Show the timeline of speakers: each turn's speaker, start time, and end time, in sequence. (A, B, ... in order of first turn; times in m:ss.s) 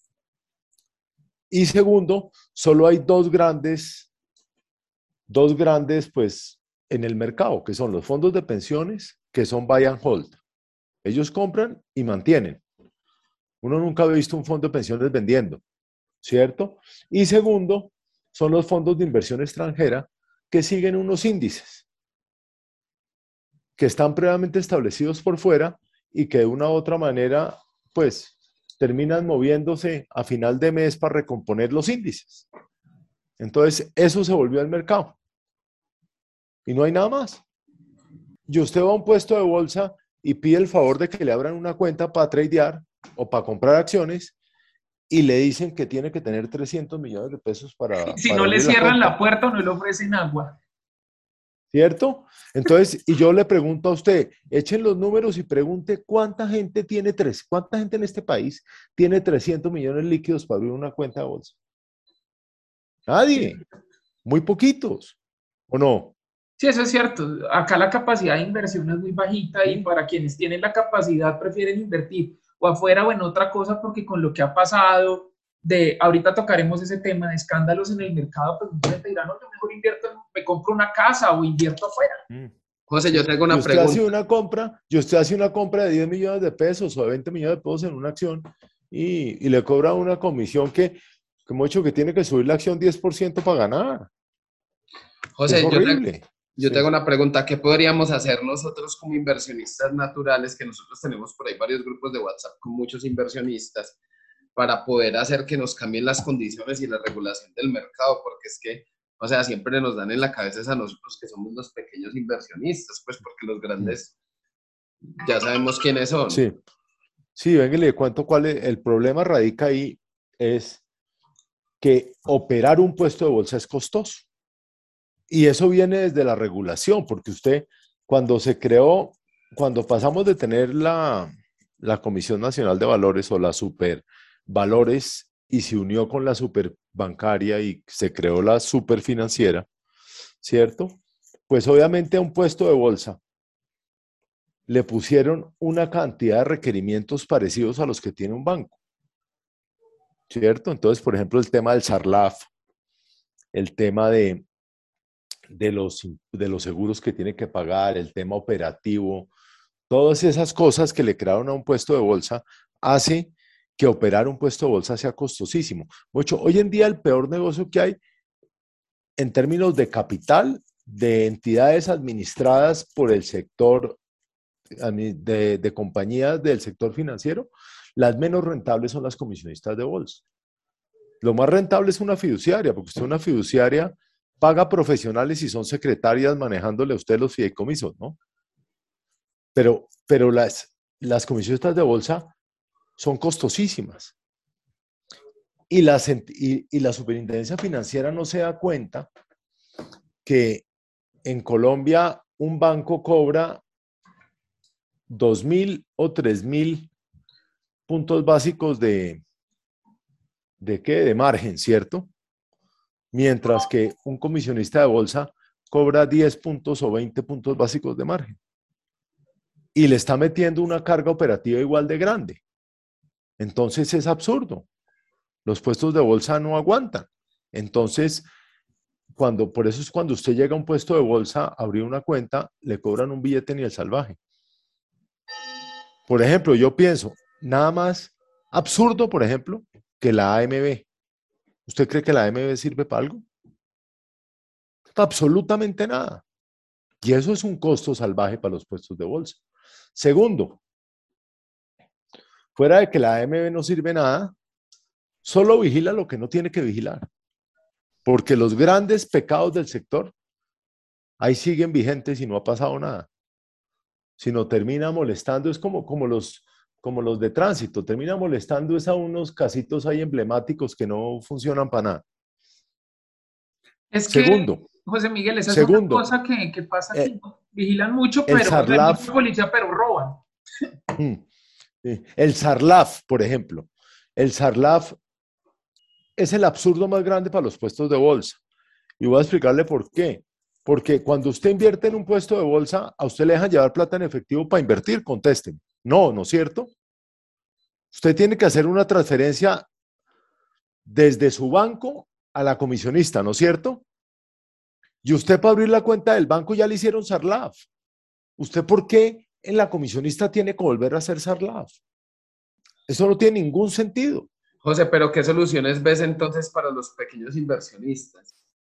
0:01.5-0:04.1 A
0:05.3-0:10.4 A
0:11.0-0:12.6 A
0:13.6-0:15.6 A
0:16.2-0:21.8 A
0:23.8-0:32.4 A
0:33.4-0:35.2 A
0:36.6-0:37.4 A
0:38.5-0:44.3 A
0:45.1-0:49.1 A
0:48.1-0:50.6 B
0:51.7-1:01.5 A
1:03.1-1:03.6 A
1:04.2-1:05.1 A
1:05.7-1:06.1 A
1:06.6-1:22.2 B
1:22.9-1:24.1 C
1:23.1-1:34.1 A
1:35.4-1:36.0 C
1:35.5-1:36.8 A
1:36.6-1:44.0 C
1:44.5-1:54.1 C
1:55.2-1:56.4 C
1:56.3-1:56.6 A
1:57.4-2:00.8 A
2:01.8-2:04.2 A
2:05.3-2:19.6 A
2:20.4-2:21.0 A
2:21.5-2:23.2 A
2:24.7-2:28.7 A
2:30.3-2:32.5 A
2:33.5-2:34.4 A
2:35.5-2:39.3 A
2:39.9-2:48.0 A
2:49.2-2:54.0 A
2:54.8-3:00.2 A
3:01.2-3:08.2 A
3:09.5-3:12.3 A
3:13.0-3:14.1 A
3:15.7-3:19.1 A
3:20.2-3:20.6 A
3:21.2-3:23.6 A
3:25.1-3:26.9 A
3:27.9-3:29.2 A
3:30.6-3:32.1 A
3:33.1-3:38.4 A
3:39.7-3:42.4 A
3:43.4-3:44.6 A
3:45.4-3:48.3 A
3:49.1-3:54.2 A
3:56.1-4:00.8 A
4:01.7-4:03.2 A
4:05.0-4:06.2 A
4:07.0-4:09.4 A
4:10.0-4:10.6 A
4:12.6-4:14.3 A
4:15.2-4:17.0 A
4:18.0-4:20.1 A
4:21.2-4:23.1 A
4:24.2-4:32.0 A
4:33.9-4:40.2 B
4:34.1-4:34.6 A
4:35.5-4:36.0 A
4:38.3-4:39.0 A
4:40.9-4:41.2 A
4:41.8-4:45.0 A
4:46.2-4:48.4 A
4:49.0-4:56.7 A
4:57.9-4:59.6 A
5:00.8-5:03.8 A
5:05.0-5:07.6 A
5:08.4-5:11.8 A
5:12.9-5:14.3 A
5:14.6-5:18.2 C